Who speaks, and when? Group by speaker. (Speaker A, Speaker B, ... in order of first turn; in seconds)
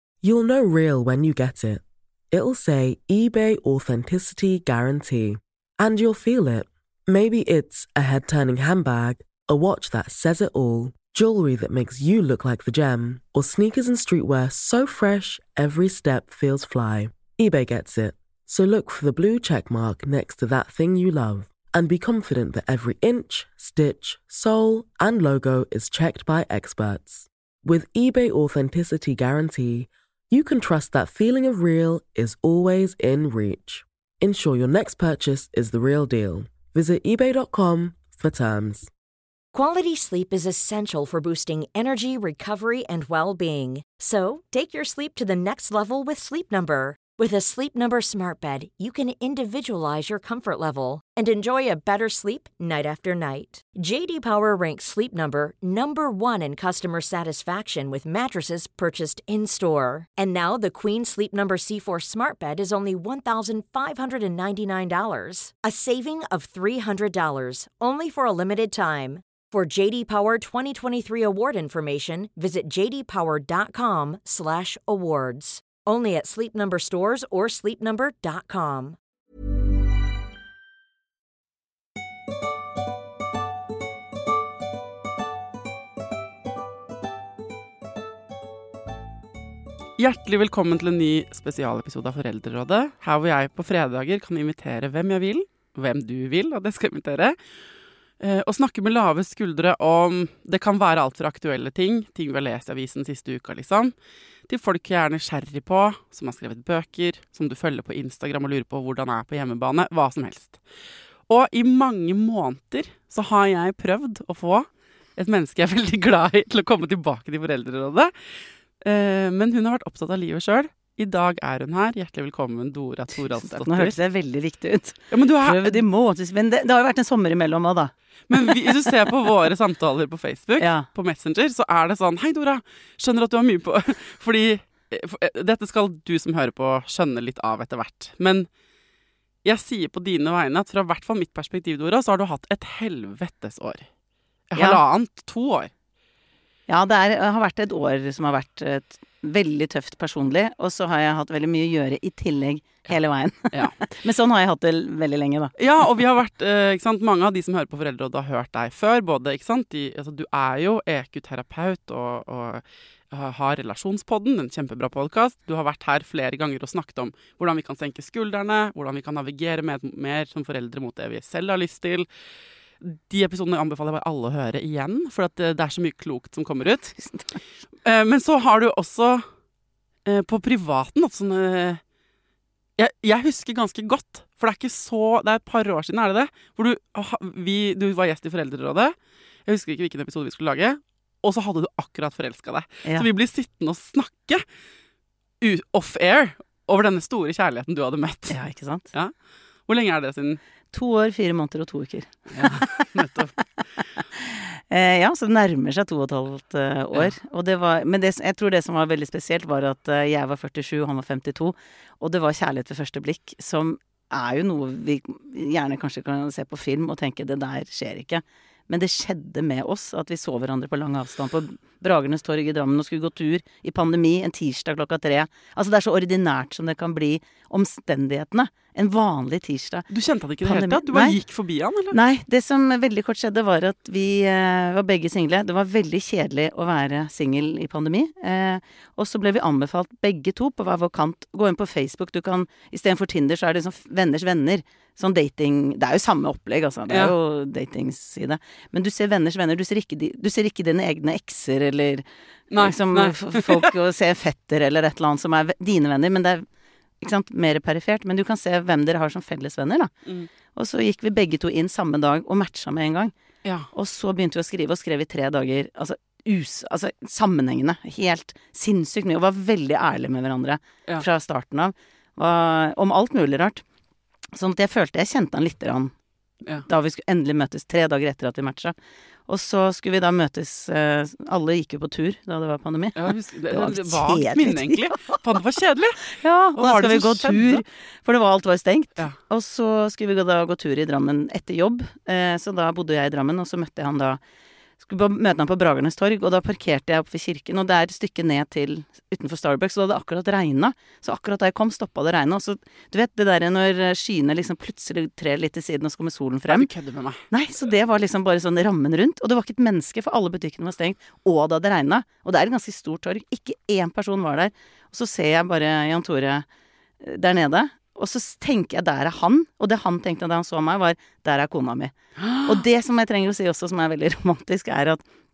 Speaker A: 0.2-38.9
Speaker B: 39.5-79.0
Speaker C: 90.0-97.4, 98.2-103.9, 104.5-110.6, 111.3-118.1, 118.8-124.0, 125.1-125.8, 128.3-138.5, 139.4-143.9, 144.5-145.7, 155.6-172.1, 172.8-177.0, 177.8-179.2, 180.1-181.8, 182.8-188.9, 189.5-194.4, 195.4-198.4, 199.7-200.4, 202.3-203.3, 229.9-232.0, 252.5-253.7, 263.4-263.7, 282.9-287.6, 306.5-307.2, 322.2-322.6
Speaker D: 123.4-128.8, 130.6-130.9, 146.7-155.6, 177.0-177.2, 198.3-198.9, 200.7-202.9, 204.2-229.9, 230.4-231.2, 231.9-252.1, 252.6-256.4, 257.0-259.9, 260.5-263.1, 263.7-273.6, 274.3-275.9, 276.6-278.8, 279.3-285.2, 286.1-294.2, 294.8-306.7, 307.3-316.4, 317.0-325.0